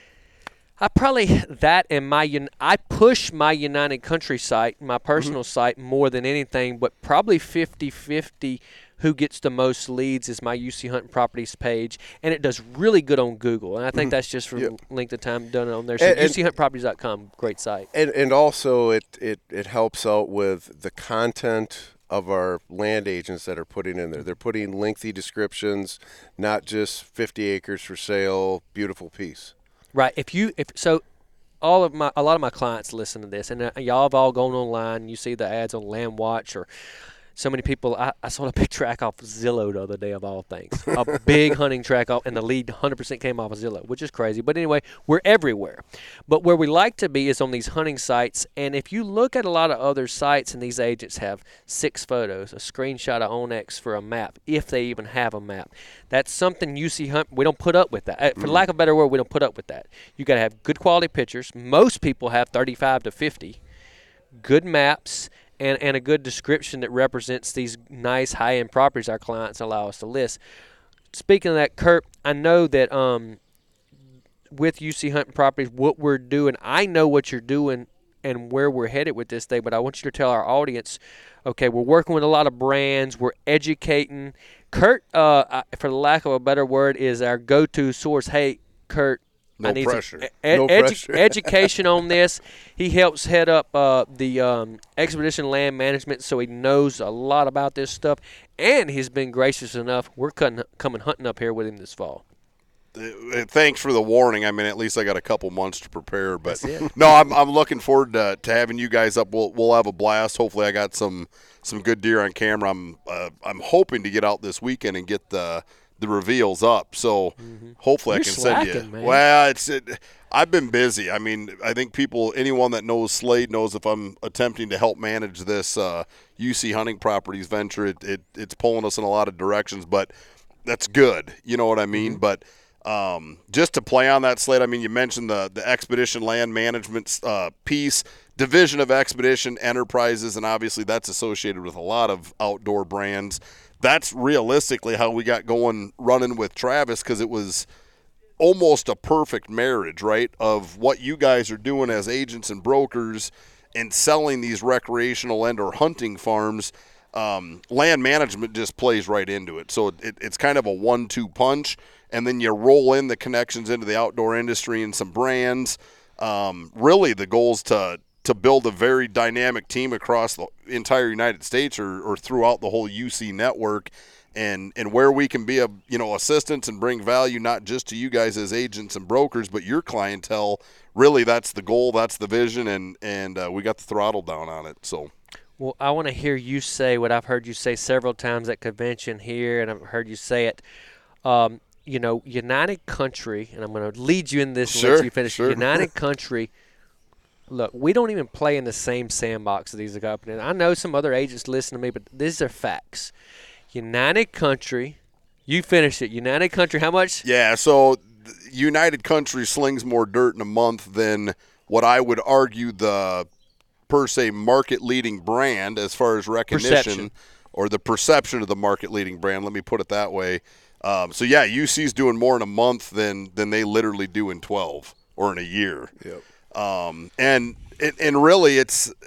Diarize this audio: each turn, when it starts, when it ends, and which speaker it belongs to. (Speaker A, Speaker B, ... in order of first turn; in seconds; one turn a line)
Speaker A: 0.8-17.9
Speaker B: 16.0-16.4
Speaker B: 17.9-29.5
Speaker A: 29.9-31.0
Speaker A: 31.6-36.7
Speaker A: 37.3-63.6
Speaker B: 58.4-58.6
Speaker A: 64.3-70.4
Speaker A: 71.1-73.4
Speaker A: 74.5-102.2
Speaker C: 89.6-90.3
Speaker B: 90.5-91.7
Speaker C: 102.9-130.1
Speaker A: 106.5-106.9
Speaker A: 117.4-119.2
Speaker C: 130.7-147.7
Speaker C: 148.4-185.1
Speaker A: 185.6-190.6
Speaker A: 191.2-196.5
Speaker C: 194.7-195.8
Speaker A: 197.5-203.1
Speaker A: 203.7-207.2
Speaker C: 207.2-213.3
Speaker C: 213.9-225.9
Speaker A: 216.5-217.1
Speaker C: 226.5-228.9